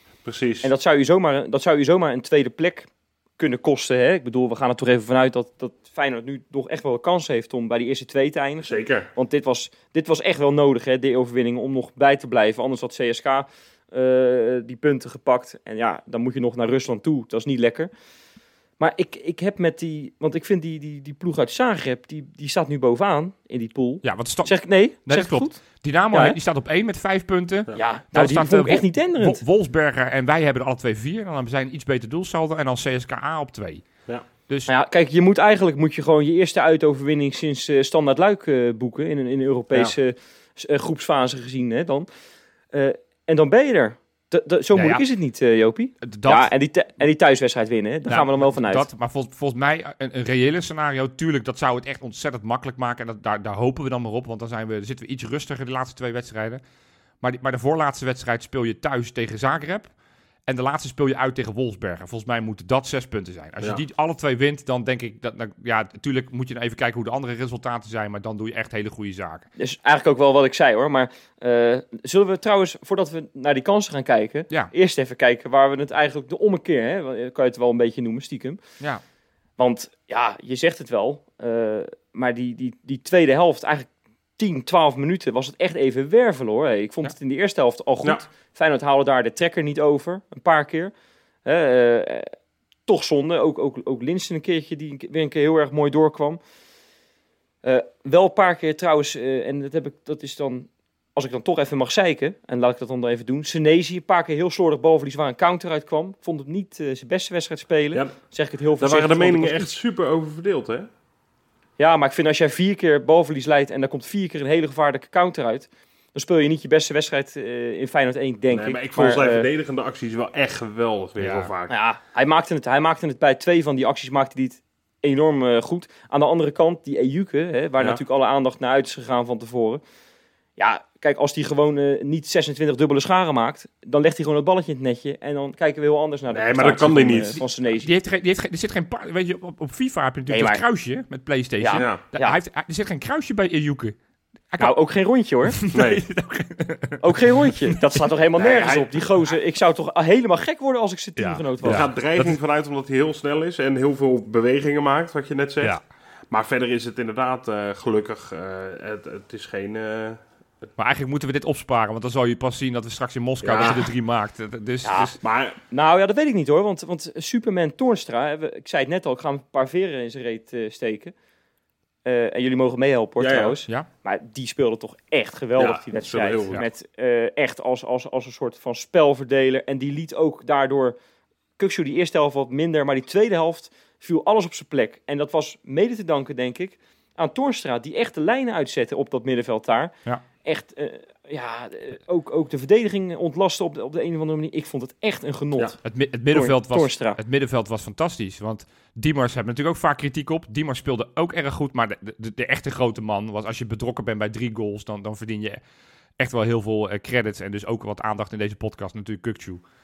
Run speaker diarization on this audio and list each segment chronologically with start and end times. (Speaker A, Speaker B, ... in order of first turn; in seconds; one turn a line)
Speaker A: 0.2-0.7
Speaker B: 0.6-17.9
Speaker A: 8.6-9.1
Speaker B: 18.8-26.4
Speaker C: 24.0-33.9
Speaker B: 27.7-29.4
Speaker B: 34.7-42.1
Speaker B: 42.7-48.9
Speaker C: 44.7-45.0
Speaker C: 46.0-46.5
Speaker C: 48.1-56.6
Speaker C: 57.2-59.9
Speaker C: 60.5-69.5
Speaker B: 69.6-78.6
Speaker B: 79.6-90.9
Speaker B: 91.4-92.3
Speaker B: 92.9-96.4
Speaker B: 97.6-109.7
Speaker A: 108.8-110.9
Speaker B: 111.8-119.5
Speaker A: 118.5-121.7
Speaker C: 121.2-121.5
Speaker B: 121.7-129.8
Speaker B: 130.6-137.9
Speaker A: 136.3-137.4
Speaker C: 137.8-144.0
Speaker B: 140.3-140.6
Speaker B: 141.6-142.4
Speaker A: 141.8-142.0
Speaker B: 144.6-145.6
Speaker C: 145.5-148.1
Speaker A: 145.7-146.0
Speaker B: 147.0-151.9
Speaker A: 148.4-148.9
Speaker C: 151.2-152.4
Speaker A: 151.6-155.8
Speaker A: 156.3-160.2
Speaker C: 160.8-165.2
Speaker A: 163.4-163.9
Speaker B: 164.8-165.2
Speaker A: 165.2-165.6
Speaker B: 165.7-171.1
Speaker B: 172.0-180.9
Speaker A: 173.2-173.6
Speaker A: 175.6-176.6
Speaker B: 181.6-195.8
Speaker C: 195.8-205.6
Speaker B: 196.3-197.2
Speaker C: 206.2-209.6